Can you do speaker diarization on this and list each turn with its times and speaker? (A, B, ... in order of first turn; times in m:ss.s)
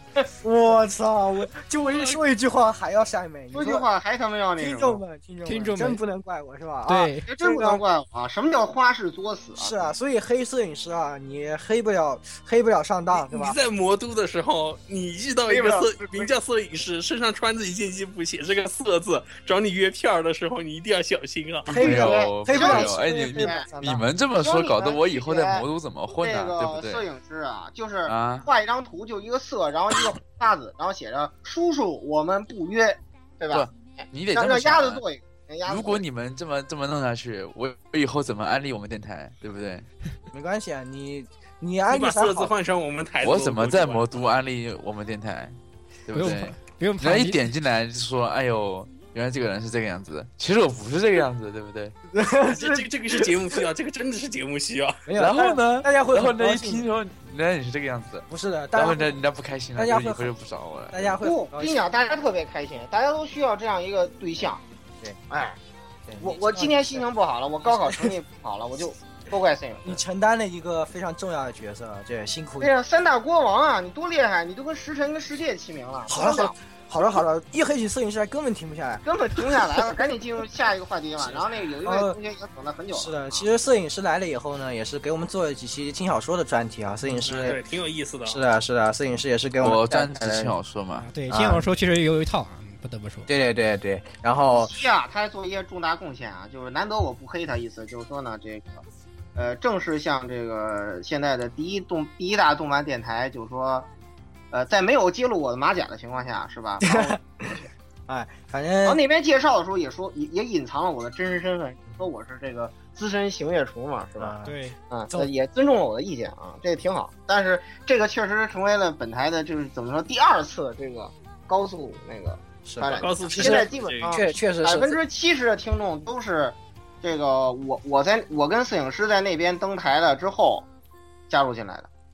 0:00.4-0:03.8 A
0:03.5-0:05.0 B
0:04.6-0:07.8 A
0:05.4-0:06.0 C
0:06.9-0:07.3 C
0:07.3-0:09.9 B
0:09.6-0:13.6 A
0:13.1-0:21.8 D
0:15.5-0:16.3 B
0:21.7-0:23.9 A
0:21.7-0:36.0 B
0:21.8-0:27.0 E
0:28.0-0:28.5 E
0:33.5-0:35.0 E
0:35.6-0:39.8 E
0:40.3-0:42.5 A
0:41.9-0:44.0 D
0:43.2-0:45.6 E
0:46.1-0:51.9 E
0:46.1-0:47.4 C
0:52.1-0:53.2 A
0:52.5-0:55.0 D
0:55.1-0:56.9 A
0:55.2-1:01.0 E
0:58.3-0:59.2 A
0:59.8-1:00.3 A
1:00.9-1:01.8 A
1:01.2-1:04.6 B
1:05.3-1:05.6 B
1:06.1-1:07.0 A
1:06.2-1:10.0 B
1:07.6-1:08.1 A
1:09.8-1:12.7 A
1:12.6-1:16.5 B
1:16.1-1:19.8 A
1:19.0-1:23.4 B
1:21.8-1:22.2 A
1:22.9-1:27.6 A
1:27.2-1:28.4 D
1:28.2-1:30.6 A
1:29.6-1:31.1 E
1:31.0-1:33.3 C
1:31.3-1:31.7 A
1:33.3-1:34.7 A
1:34.5-1:38.8 B
1:39.3-1:43.9 B
1:44.5-1:47.6 B
1:46.8-1:49.0 A
1:48.8-1:54.3 B
1:54.2-1:54.6 A
1:54.4-1:54.8 C
1:54.9-2:10.6 B
2:02.6-2:05.0 A
2:03.0-2:04.2 D
2:11.3-2:11.9 B